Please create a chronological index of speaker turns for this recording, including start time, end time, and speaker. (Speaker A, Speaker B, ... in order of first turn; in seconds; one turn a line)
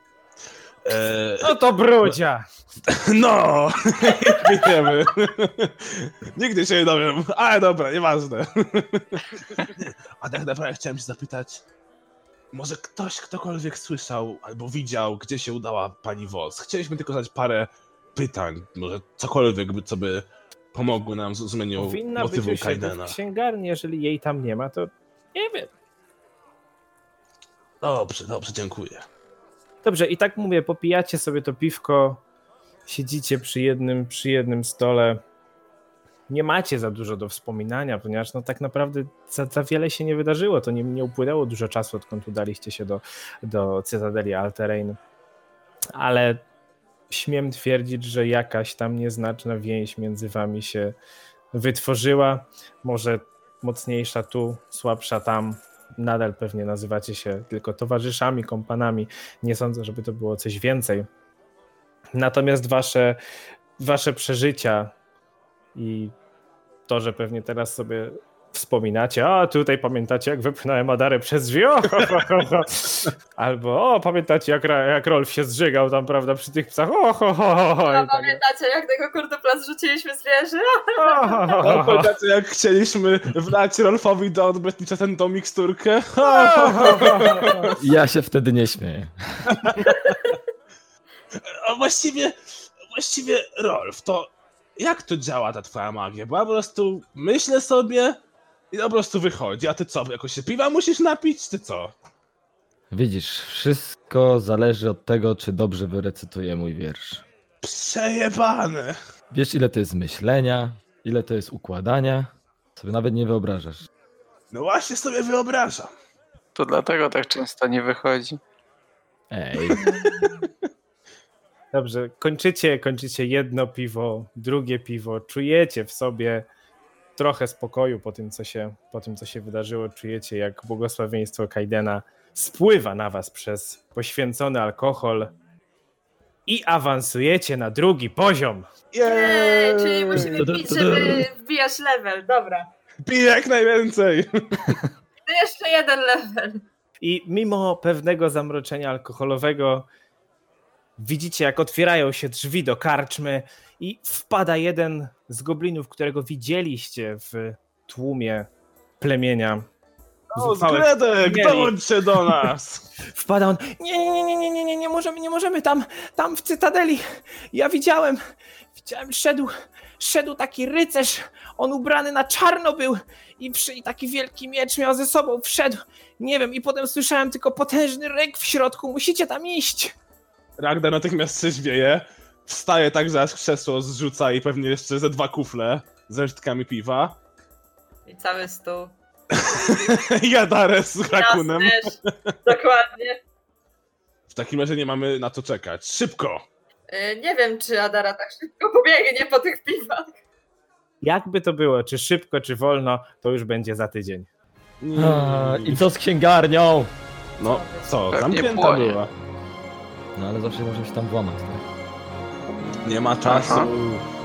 Speaker A: 0.8-1.5
Speaker B: 1.4-2.5
Speaker A: 2.9-11.6
Speaker A: 12.5-23.2
Speaker B: 21.8-25.7
Speaker A: 27.8-29.1
Speaker B: 29.8-32.2
Speaker B: 32.9-35.2
Speaker B: 36.3-45.0
Speaker B: 46.0-46.5
Speaker B: 47.1-51.0
Speaker B: 51.5-61.1
Speaker B: 62.1-63.2
Speaker B: 63.8-64.9
Speaker B: 65.8-66.2
Speaker B: 66.9-78.4
Speaker C: 77.9-81.6
Speaker B: 81.0-82.1
Speaker A: 81.6-87.8
Speaker B: 86.4-87.7
Speaker D: 87.8-89.7
Speaker A: 89.5-90.1
Speaker C: 89.8-90.4
Speaker A: 91.3-98.2
Speaker A: 98.7-101.9
Speaker D: 102.9-107.2
Speaker A: 107.6-109.0
Speaker D: 109.3-113.9
Speaker A: 114.5-115.9
Speaker E: 116.5-118.4
Speaker D: 119.3-119.8
Speaker A: 119.7-120.3
Speaker C: 119.8-120.3
Speaker B: 121.7-126.5
Speaker B: 127.2-135.3
Speaker B: 136.5-138.7
Speaker A: 138.9-140.5
Speaker C: 139.0-142.7
Speaker D: 140.1-141.3
Speaker A: 143.1-144.8
Speaker C: 145.3-146.7
Speaker B: 147.0-149.9
Speaker B: 151.0-158.5
Speaker B: 159.0-159.7
Speaker A: 160.3-162.8
Speaker B: 160.4-162.5
Speaker B: 163.1-168.2
Speaker B: 168.8-179.9
Speaker A: 180.6-187.2
Speaker C: 188.1-188.9
Speaker A: 189.3-192.4
Speaker C: 189.6-189.9
Speaker C: 191.1-193.2
Speaker A: 194.3-196.4
Speaker C: 196.9-200.2
Speaker B: 201.0-204.3
Speaker A: 204.8-205.9
Speaker D: 204.9-206.9
Speaker A: 207.4-209.1
Speaker C: 207.4-208.0
Speaker E: 208.1-209.1
Speaker D: 210.2-211.6
Speaker A: 212.8-214.1
Speaker E: 213.3-213.6